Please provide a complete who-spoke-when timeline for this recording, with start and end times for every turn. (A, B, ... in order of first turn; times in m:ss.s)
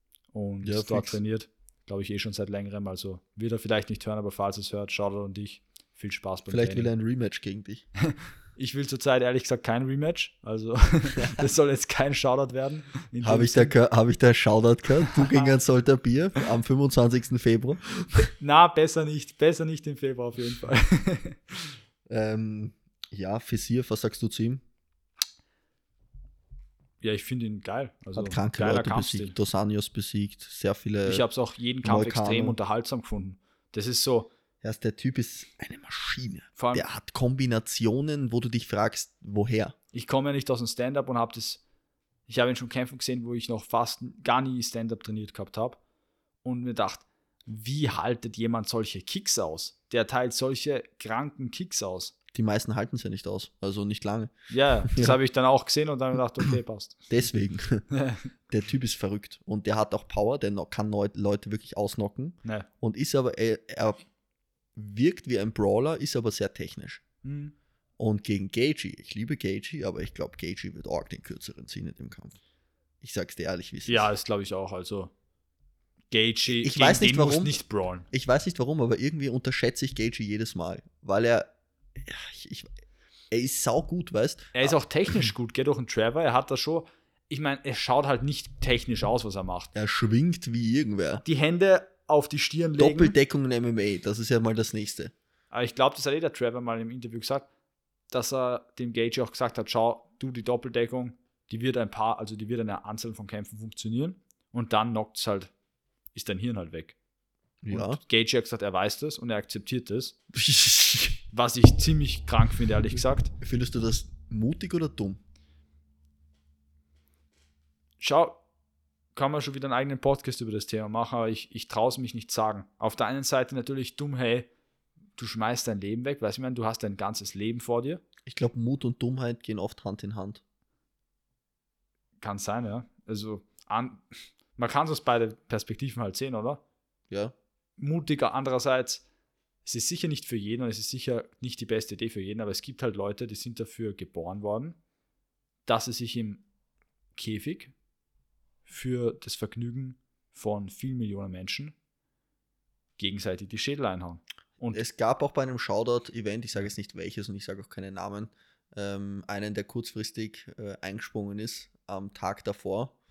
0:00.3-0:06.9 A
0:00.6-0:01.2 B
0:06.5-0:07.9 B
0:08.1-0:13.7 A
0:13.2-0:18.3 B
0:18.4-0:21.8 A
0:22.1-0:24.6 B
0:27.0-0:29.4 A
0:28.2-0:31.3 B
0:31.0-0:34.3 A
0:31.8-0:32.6 B
0:34.6-0:39.8 B
0:36.6-0:36.8 A
0:39.9-0:41.6 A
0:42.3-0:45.8 A
0:46.4-0:52.1 A
0:52.3-0:54.3 B
0:54.5-0:57.1 A
0:54.9-0:55.2 B
0:57.1-0:57.9 B
0:57.9-0:58.3 A
0:58.5-1:04.0 B
1:04.8-1:07.0 B
1:07.2-1:07.5 A
1:08.0-1:12.4 B
1:13.0-1:14.1 B
1:13.9-1:15.1 A
1:16.1-1:18.1 A
1:16.5-1:17.6 B
1:18.1-1:22.7 B
1:23.3-1:25.3 B
1:24.6-1:29.7 A
1:29.8-1:31.2 B
1:31.2-1:33.2 A
1:32.8-1:35.1 B
1:35.5-1:37.5 A
1:38.1-1:45.5 A
1:46.1-1:47.0 A
1:47.6-1:48.0 B
1:47.7-1:50.2 A
1:50.3-1:51.2 B
1:51.3-1:53.3 A
1:53.4-1:55.2 B
1:58.0-1:58.4 A
1:59.1-2:04.5 A
2:05.2-2:08.0 A
2:08.3-2:10.4 B
2:12.2-2:14.0 A
2:14.6-2:16.6 A
2:17.8-2:19.0 A
2:19.6-2:24.8 A
2:25.7-2:26.4 A
2:27.2-2:27.7 A
2:28.7-2:31.7 A
2:33.0-2:34.8 A
2:34.7-2:42.9 B